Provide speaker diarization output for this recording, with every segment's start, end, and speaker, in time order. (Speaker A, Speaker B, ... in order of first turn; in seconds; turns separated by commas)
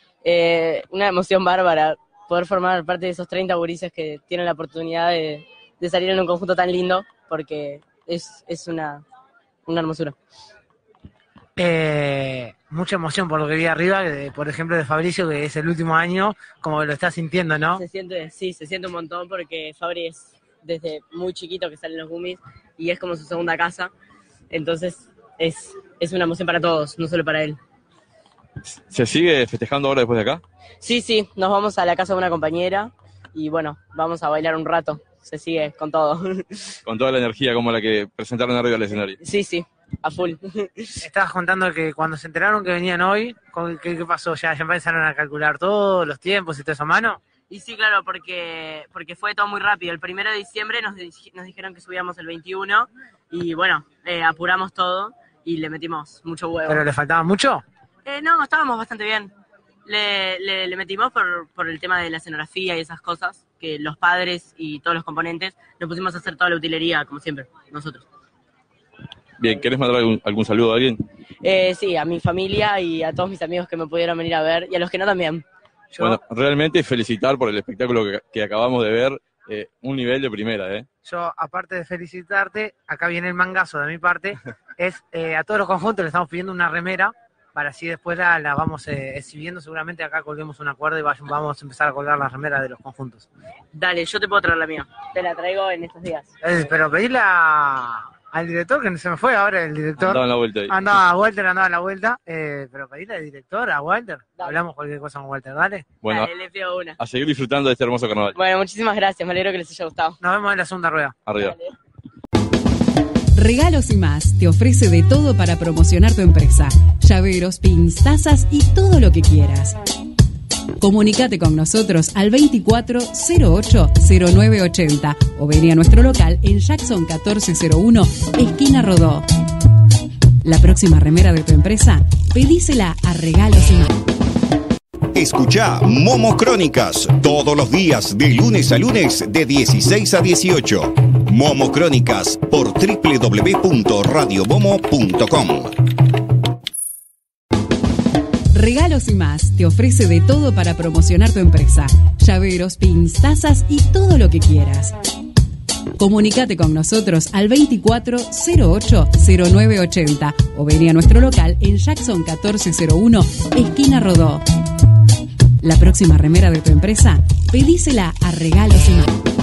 Speaker A: 0.2-9.0, Speaker A: 9.7-10.2, Speaker B: 11.6-17.8, Speaker A: 17.7-23.9, Speaker A: 24.5-27.6, Speaker C: 28.6-30.4, Speaker A: 30.8-36.7, Speaker C: 36.9-39.2, Speaker A: 39.2-41.0, Speaker B: 41.0-47.2, Speaker A: 47.5-56.9, Speaker B: 56.7-57.6, Speaker A: 58.0-59.3, Speaker A: 59.9-68.0, Speaker C: 69.4-71.0, Speaker A: 71.4-75.4, Speaker C: 76.0-80.9, Speaker B: 81.0-93.3, Speaker A: 93.7-96.3, Speaker B: 96.4-105.8, Speaker C: 100.0-100.8, Speaker A: 104.3-104.6, Speaker C: 106.0-106.3, Speaker A: 106.0-107.0, Speaker C: 107.0-108.4, Speaker A: 108.3-110.2, Speaker B: 110.2-111.1, Speaker C: 111.3-111.5, Speaker A: 111.4-111.7, Speaker D: 113.3-119.8, Speaker D: 120.8-129.2, Speaker D: 130.4-133.9, Speaker E: 135.1-145.7, Speaker D: 148.5-154.9, Speaker D: 156.0-164.4, Speaker D: 165.6-169.1